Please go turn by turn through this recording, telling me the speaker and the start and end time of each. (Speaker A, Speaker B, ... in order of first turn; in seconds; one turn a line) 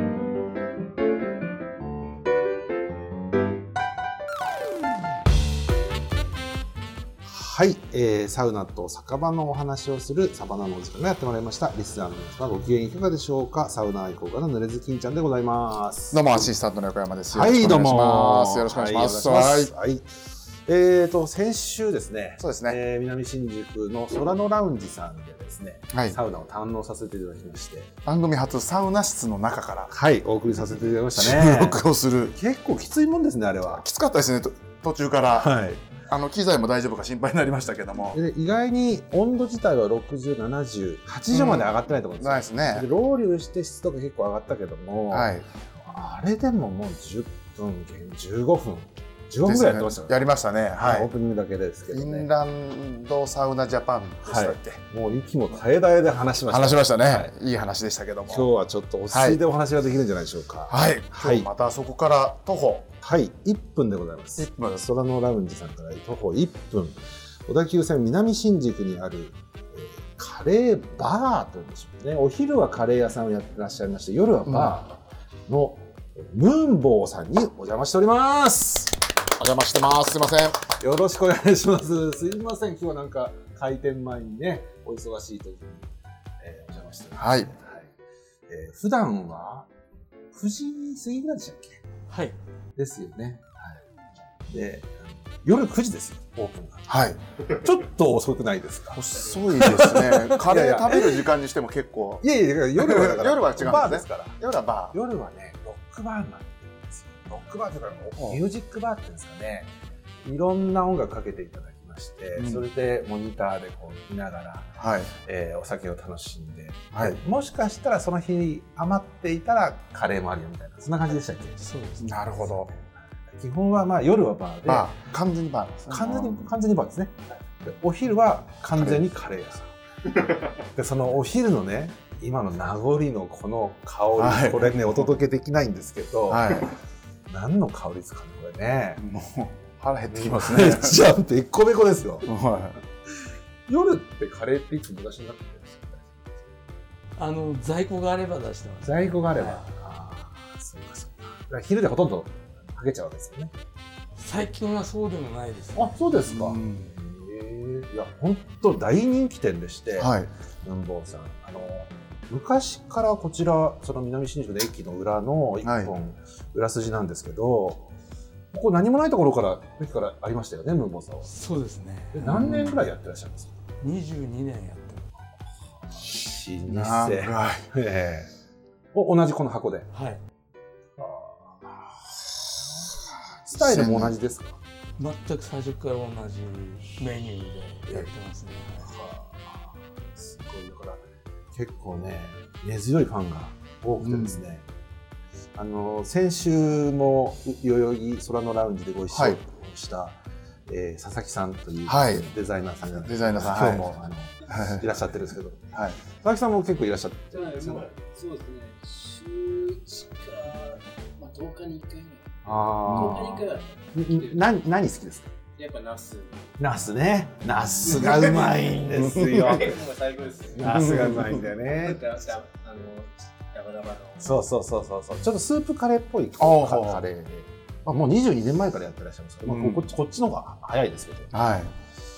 Speaker A: 7.2-16.5
Speaker B: 16.1-19.7
Speaker A: 17.3-27.9
Speaker B: 22.4-22.8
Speaker B: 25.9-26.2
Speaker B: 28.1-29.9
Speaker A: 29.9-33.8
Speaker B: 31.1-32.4
Speaker B: 33.7-35.5
Speaker A: 35.4-35.8
Speaker B: 36.1-38.2
Speaker A: 38.1-50.1
Speaker B: 41.3-42.9
Speaker B: 45.1-45.5
Speaker B: 49.5-51.1
Speaker A: 50.8-52.3
Speaker B: 51.9-54.8
Speaker A: 54.2-57.3
Speaker B: 56.5-58.5
Speaker A: 58.3-61.5
Speaker B: 59.1-59.4
Speaker B: 60.7-62.9
Speaker A: 63.0-79.0
Speaker B: 64.4-64.8
Speaker B: 74.5-74.8
Speaker B: 79.3-80.6
Speaker A: 80.8-85.9
Speaker A: 86.4-87.9
Speaker B: 87.2-87.5
Speaker A: 88.5-89.7
Speaker A: 90.3-91.8
Speaker C: 92.1-92.4
Speaker A: 92.8-93.8
Speaker A: 94.5-101.2
Speaker B: 96.9-97.2
Speaker B: 98.9-102.2
Speaker A: 102.2-104.4
Speaker B: 102.8-105.0
Speaker A: 104.9-109.7
Speaker B: 108.2-108.4
Speaker A: 110.2-121.6
Speaker B: 112.4-112.6
Speaker B: 114.8-115.1
Speaker B: 116.9-117.2
Speaker C: 121.6-122.2
Speaker B: 122.0-122.7
Speaker A: 122.4-125.0
Speaker B: 124.7-126.5
Speaker A: 125.9-129.7
Speaker B: 128.8-129.1
Speaker A: 130.4-136.8
Speaker B: 134.2-135.1
Speaker B: 136.3-136.7
Speaker A: 137.3-139.0
Speaker B: 139.0-141.1
Speaker A: 140.1-142.3
Speaker B: 142.2-142.8
Speaker A: 143.7-146.3
Speaker C: 147.2-149.7
Speaker A: 148.8-153.5
Speaker C: 154.2-156.0
Speaker A: 155.8-160.1
Speaker B: 156.1-156.9
Speaker B: 160.0-160.3
Speaker A: 160.6-167.9
Speaker B: 165.6-165.9
Speaker A: 168.5-171.3
Speaker C: 171.3-172.2
Speaker A: 172.1-173.5
Speaker B: 172.2-172.8
Speaker C: 173.8-175.1
Speaker A: 175.9-178.3
Speaker B: 176.7-177.7
Speaker A: 178.9-179.9
Speaker C: 179.9-180.2
Speaker A: 181.0-181.7
Speaker B: 183.5-184.2
Speaker A: 183.5-184.6
Speaker C: 185.0-188.9
Speaker A: 188.8-191.0
Speaker A: 191.5-194.7
Speaker B: 194.0-194.4
Speaker A: 195.6-207.9
Speaker B: 199.1-199.4
Speaker B: 201.8-202.3
Speaker B: 202.9-203.9
Speaker B: 204.5-204.8
Speaker B: 205.7-206.0
Speaker D: 207.3-212.3
Speaker A: 212.4-215.3
Speaker B: 212.8-213.3
Speaker D: 212.9-214.3
Speaker D: 215.6-216.5
Speaker A: 216.6-219.9
Speaker B: 217.8-218.3
Speaker D: 217.8-224.3
Speaker B: 218.9-219.7
Speaker A: 220.5-222.1
Speaker B: 220.6-221.5
Speaker A: 224.2-231.3
Speaker B: 226.4-227.0
Speaker B: 229.5-229.9
Speaker B: 231.3-231.7